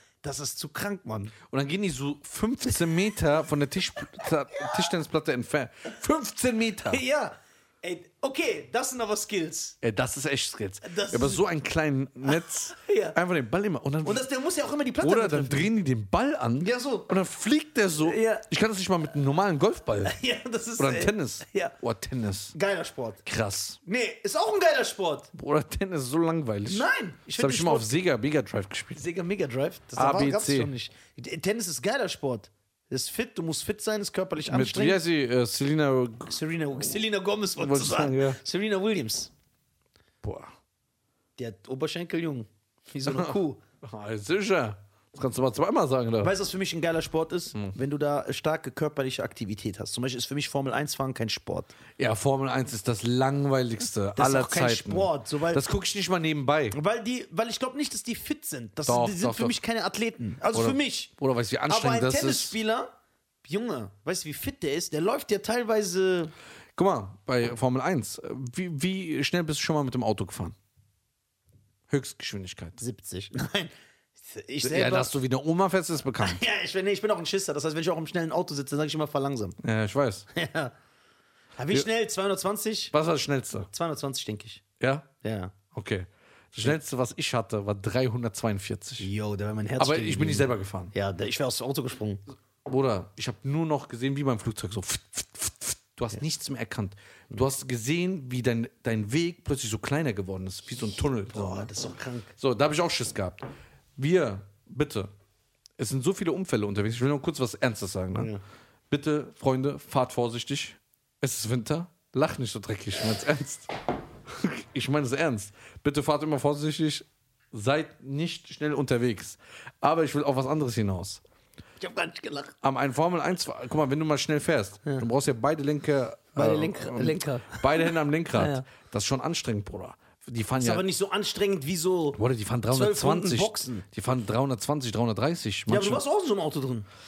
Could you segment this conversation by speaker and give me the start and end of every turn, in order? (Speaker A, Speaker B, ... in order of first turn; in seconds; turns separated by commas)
Speaker A: 0.2-1.4, Speaker B: 1.4-7.0, Speaker A: 4.2-4.8, Speaker A: 6.9-9.8, Speaker B: 9.8-14.2, Speaker A: 10.8-11.4, Speaker A: 12.3-13.2, Speaker A: 14.0-15.7, Speaker B: 15.0-20.1, Speaker A: 16.6-17.1, Speaker A: 18.0-18.4, Speaker A: 20.1-21.7, Speaker B: 20.8-22.5, Speaker A: 22.5-23.2, Speaker B: 23.3-23.8, Speaker A: 23.9-25.3, Speaker B: 25.3-29.0, Speaker A: 26.7-27.9, Speaker A: 28.9-35.0, Speaker B: 30.0-30.7, Speaker B: 34.5-36.3, Speaker A: 36.3-39.3, Speaker B: 37.6-38.4, Speaker B: 40.2-40.5, Speaker A: 41.4-43.6, Speaker B: 43.1-46.3, Speaker A: 46.2-51.7, Speaker B: 52.0-56.8, Speaker A: 54.2-55.6, Speaker A: 56.7-61.1, Speaker B: 58.9-59.6, Speaker B: 60.5-62.6, Speaker A: 61.7-62.9, Speaker A: 63.4-66.3, Speaker B: 66.8-70.6, Speaker B: 71.9-72.8, Speaker A: 72.8-75.1, Speaker B: 74.6-76.4, Speaker A: 76.2-79.6, Speaker B: 79.6-80.3, Speaker A: 80.3-80.7, Speaker A: 81.6-82.9, Speaker B: 82.9-83.7, Speaker A: 83.7-84.6, Speaker B: 84.8-85.1, Speaker A: 85.2-85.5, Speaker B: 85.7-89.1, Speaker A: 89.0-92.2, Speaker B: 89.8-90.9, Speaker B: 92.7-101.7, Speaker A: 100.9-102.3, Speaker B: 102.4-103.5, Speaker B: 104.0-105.1, Speaker B: 105.8-108.3, Speaker A: 108.2-108.4, Speaker B: 108.9-113.7, Speaker B: 114.3-121.2, Speaker A: 121.8-122.5, Speaker B: 122.6-130.8, Speaker A: 126.4-128.6, Speaker A: 130.6-133.8, Speaker B: 132.2-136.0, Speaker A: 135.7-136.9